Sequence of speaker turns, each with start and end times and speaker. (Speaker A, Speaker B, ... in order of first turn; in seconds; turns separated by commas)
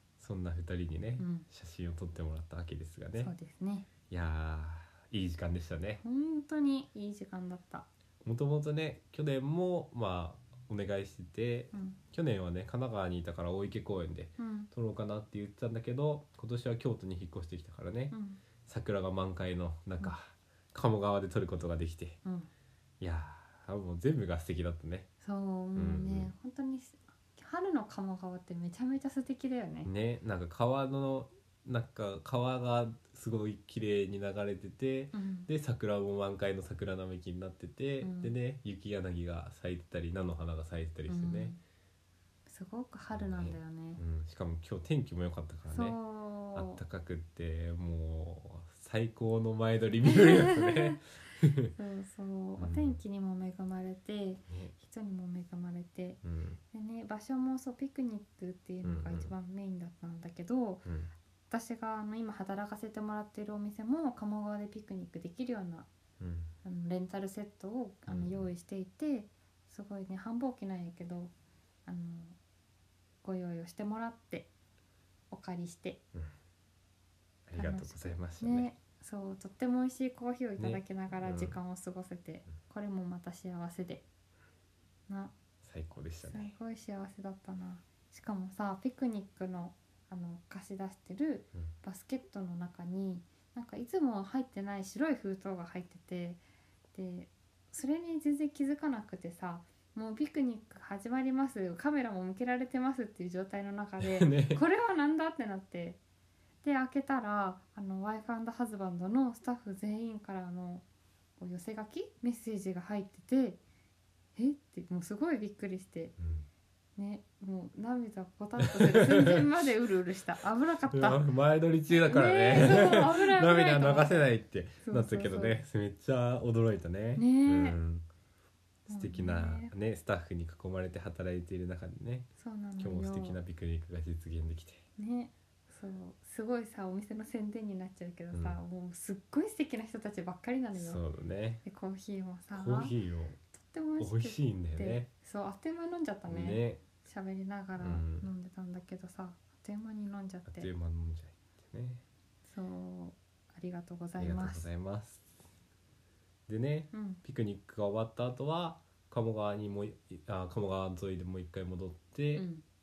Speaker A: 0.2-3.3, Speaker B: 1.2-1.5, Speaker B: 3.2-3.9, Speaker A: 4.1-6.0, Speaker B: 6.0-7.9, Speaker A: 8.2-18.1, Speaker B: 11.7-12.0, Speaker B: 14.4-14.7, Speaker B: 18.1-18.4, Speaker A: 18.7-22.2, Speaker B: 22.2-22.5, Speaker A: 23.0-25.1, Speaker B: 25.2-29.9, Speaker A: 25.8-26.3, Speaker A: 29.9-41.6, Speaker B: 35.1-35.5, Speaker B: 38.0-38.4, Speaker B: 41.1-41.6, Speaker B: 42.5-44.0, Speaker A: 43.1-46.0, Speaker B: 45.7-46.8, Speaker A: 46.5-51.7, Speaker B: 50.2-51.0, Speaker B: 51.8-60.9, Speaker A: 52.6-53.0, Speaker A: 54.5-54.8, Speaker A: 56.2-56.6, Speaker A: 58.8-59.3, Speaker A: 60.9-61.1, Speaker B: 61.5-65.9, Speaker A: 66.2-66.5, Speaker B: 66.6-71.3, Speaker A: 68.1-68.5, Speaker B: 71.9-72.4, Speaker B: 73.2-74.5, Speaker B: 75.3-76.0, Speaker A: 77.5-78.7, Speaker B: 77.5-84.0, Speaker A: 80.6-81.6, Speaker B: 85.1-85.3, Speaker A: 85.6-86.5, Speaker B: 86.2-96.4, Speaker B: 96.9-106.0, Speaker A: 104.0-104.6, Speaker B: 106.6-110.8, Speaker B: 111.4-113.6, Speaker B: 114.4-116.1, Speaker A: 116.2-116.5, Speaker B: 117.0-121.2, Speaker A: 118.6-119.5, Speaker A: 120.9-128.1, Speaker B: 121.9-124.3, Speaker B: 124.8-125.6, Speaker B: 127.2-127.8, Speaker B: 128.9-129.7, Speaker A: 128.9-134.8, Speaker B: 132.4-133.4, Speaker B: 135.0-141.0, Speaker A: 138.3-138.6, Speaker A: 140.7-141.6, Speaker B: 141.6-142.9, Speaker A: 142.5-143.4, Speaker B: 143.6-150.7, Speaker A: 144.0-145.1, Speaker A: 146.3-146.8, Speaker A: 147.8-148.3, Speaker A: 150.5-152.0, Speaker B: 152.5-154.7, Speaker A: 154.2-155.3, Speaker A: 156.5-162.4, Speaker B: 156.9-157.2, Speaker B: 162.3-162.6